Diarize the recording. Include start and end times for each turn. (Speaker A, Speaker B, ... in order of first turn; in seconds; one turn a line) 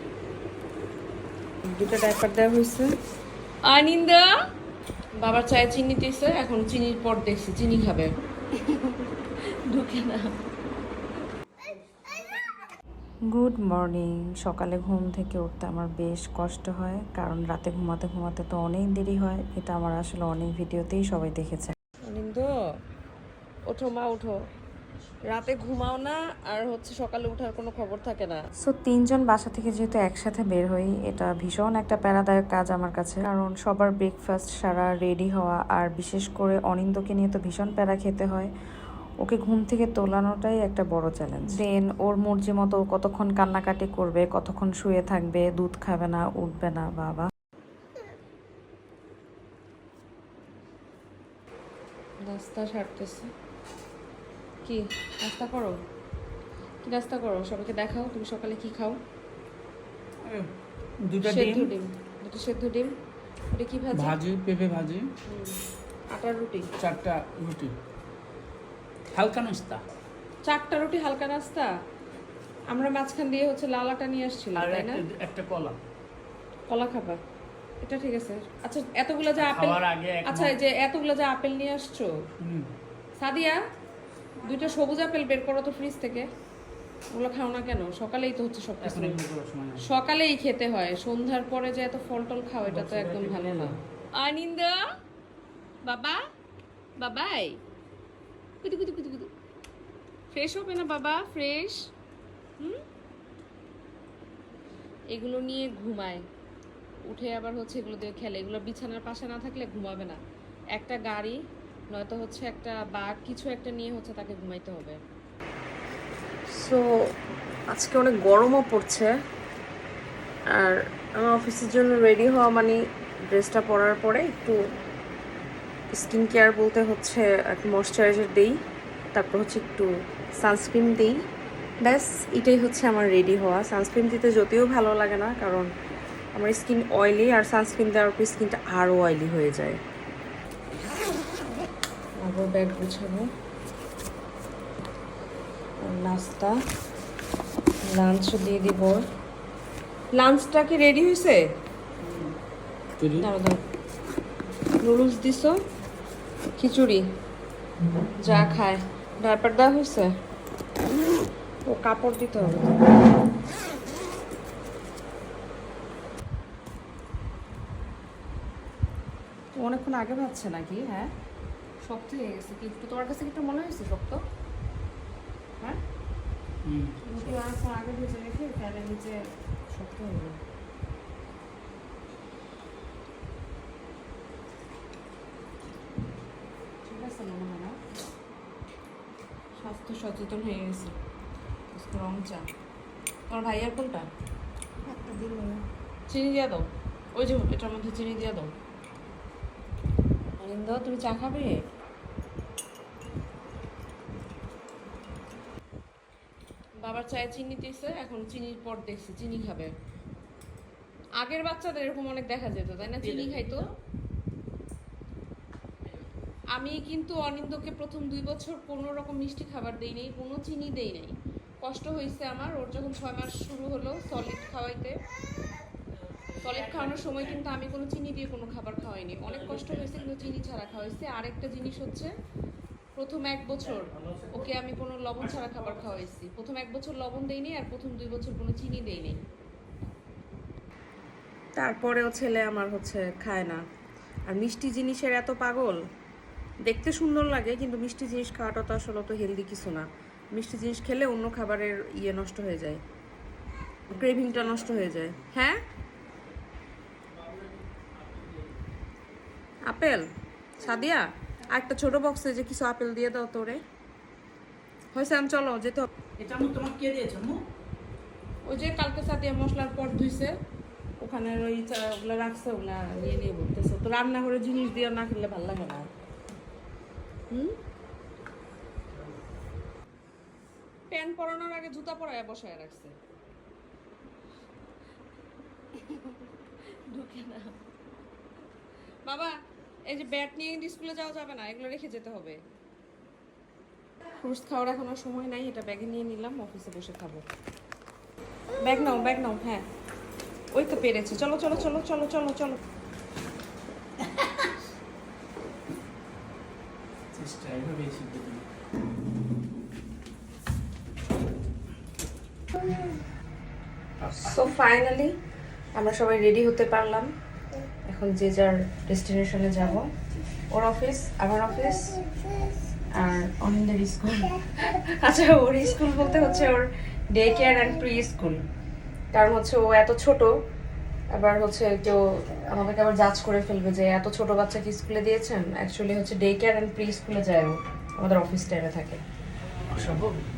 Speaker A: 1.6-2.9
Speaker A: 3.6-4.3
Speaker A: 5.2-10.4
Speaker B: 13.3-21.7
Speaker A: 22.1-22.5
Speaker A: 23.7-24.4
Speaker A: 25.3-28.4
Speaker B: 28.6-38.5
Speaker B: 39.2-47.3
Speaker A: 52.2-53.3
Speaker A: 54.6-55.8
Speaker A: 56.8-59.0
Speaker C: 61.0-61.7
Speaker A: 61.2-62.9
Speaker A: 63.5-64.2
Speaker C: 63.9-65.1
Speaker A: 65.2-66.7
Speaker C: 66.8-67.7
Speaker C: 69.1-69.8
Speaker A: 70.5-71.7
Speaker A: 72.7-75.0
Speaker C: 74.5-75.8
Speaker A: 76.7-77.2
Speaker A: 77.8-82.1
Speaker C: 79.3-80.5
Speaker C: 82.4-82.7
Speaker A: 83.2-83.6
Speaker A: 84.4-86.3
Speaker A: 87.1-89.2
Speaker C: 88.8-89.8
Speaker A: 89.8-94.8
Speaker C: 92.7-93.8
Speaker A: 95.8-96.2
Speaker A: 97.0-97.6
Speaker A: 98.6-99.3
Speaker A: 100.3-101.8
Speaker A: 102.6-102.8
Speaker A: 105.1-106.2
Speaker A: 107.1-110.2
Speaker A: 110.7-111.4
Speaker A: 111.9-115.0
Speaker A: 116.5-117.1
Speaker A: 117.7-119.2
Speaker A: 120.5-124.6
Speaker A: 125.9-128.6
Speaker A: 129.1-131.2
Speaker A: 131.8-135.7
Speaker A: 136.3-139.8
Speaker A: 142.2-143.3
Speaker A: 145.8-146.6
Speaker A: 147.8-149.1
Speaker A: 150.1-151.4
Speaker C: 152.0-152.3
Speaker C: 153.0-153.3
Speaker A: 153.2-153.6
Speaker A: 154.8-155.6
Speaker A: 156.6-157.1
Speaker A: 158.2-160.1
Speaker A: 161.7-162.9
Speaker A: 169.6-171.1
Speaker A: 171.8-174.2
Speaker C: 176.6-177.0
Speaker A: 177.0-180.4
Speaker A: 186.8-187.8
Speaker A: 189.6-190.9
Speaker A: 191.7-192.5
Speaker A: 193.3-194.1
Speaker A: 194.9-198.5
Speaker A: 200.4-201.6
Speaker A: 206.8-209.7
Speaker A: 211.2-213.7
Speaker C: 213.0-213.6
Speaker A: 216.5-225.0
Speaker A: 226.4-232.1
Speaker A: 232.9-239.2
Speaker A: 241.6-243.6
Speaker A: 244.2-245.8
Speaker A: 246.6-252.8
Speaker A: 253.9-255.6
Speaker A: 259.6-263.6
Speaker A: 264.9-265.9
Speaker C: 266.2-267.4
Speaker A: 268.4-270.4
Speaker A: 271.0-275.9
Speaker A: 277.3-277.6
Speaker A: 280.9-282.9
Speaker A: 285.8-286.2
Speaker A: 286.7-287.6
Speaker A: 289.0-289.4
Speaker A: 289.9-292.4
Speaker A: 294.2-297.2
Speaker A: 298.6-299.7
Speaker A: 300.5-302.6
Speaker C: 304.1-304.4
Speaker C: 307.1-308.4
Speaker C: 314.0-314.4
Speaker A: 314.2-315.1
Speaker A: 315.7-317.1
Speaker A: 317.9-319.9
Speaker A: 320.5-322.0
Speaker A: 322.9-328.4
Speaker A: 329.1-330.3
Speaker A: 331.1-339.0
Speaker C: 339.7-340.2